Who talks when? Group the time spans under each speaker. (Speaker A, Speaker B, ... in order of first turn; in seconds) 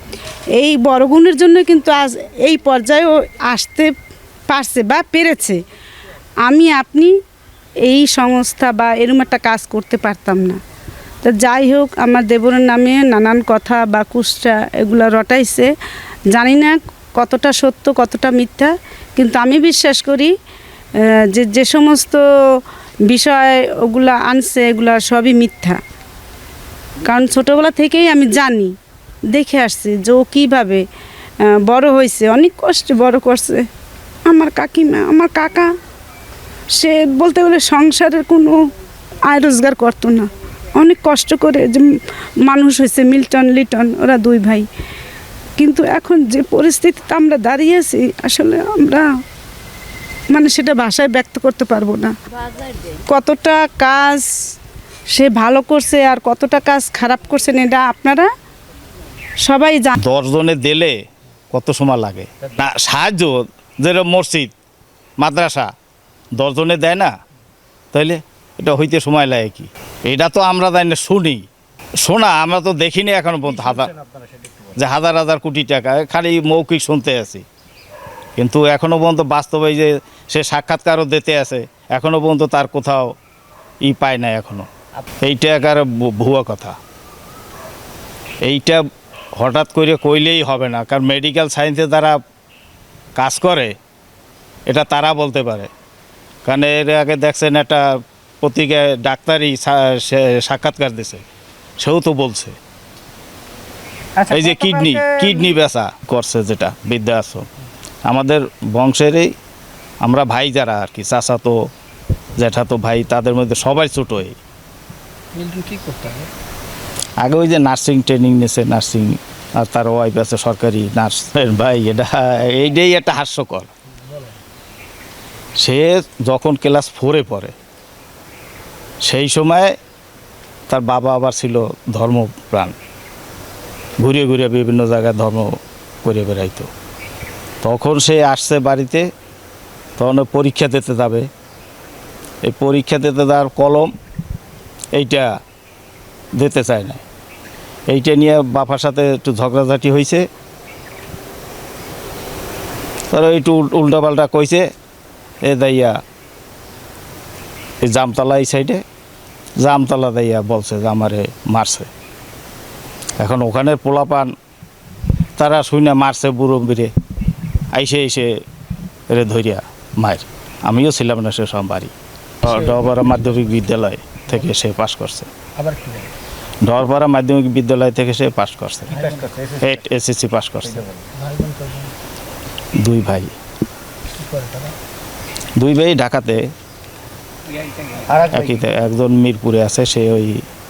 Speaker A: 0.6-3.9, 4.5-5.6, 6.5-7.1, 7.8-10.6, 11.2-15.7, 16.3-20.3, 21.3-22.2, 23.1-25.8, 27.0-28.7, 29.3-30.8, 31.5-33.6, 34.3-35.7, 36.8-38.6, 39.2-41.9, 42.5-44.7, 45.6-49.1, 50.3-52.1, 53.1-54.3, 55.1-58.3, 59.5-60.0, 104.2-105.5
Speaker B: 60.0-61.0, 61.5-64.5, 65.2-65.7, 66.4-67.1, 67.9-71.5, 72.0-74.0, 74.8-77.5, 78.4-83.1, 83.8-84.7, 85.2-86.8, 88.4-88.8, 89.3-92.2, 93.2-93.7, 94.7-95.7, 96.5-97.9, 98.4-101.2, 101.8-102.6, 104.3-107.5, 108.1-109.3, 110.0-111.6, 112.4-114.4, 117.2-123.7, 125.6-127.5, 129.0-129.8, 130.7-132.8, 134.0-136.7, 137.6-139.1, 140.0-141.3, 142.4-143.9, 144.9-145.3, 146.4-147.0, 147.9-150.3, 153.1-154.7, 155.4-156.0, 157.8-158.8, 159.6-161.9, 163.2-164.3, 165.4-166.9, 167.7-168.4, 169.1-175.3, 176.6-179.1, 179.6-180.8, 182.8-183.3, 185.6-186.4, 188.3-190.4
Speaker C: 115.3-116.3, 172.4-173.4, 175.6-176.1, 178.9-179.5, 181.0-181.9, 184.2-184.8, 187.9-188.2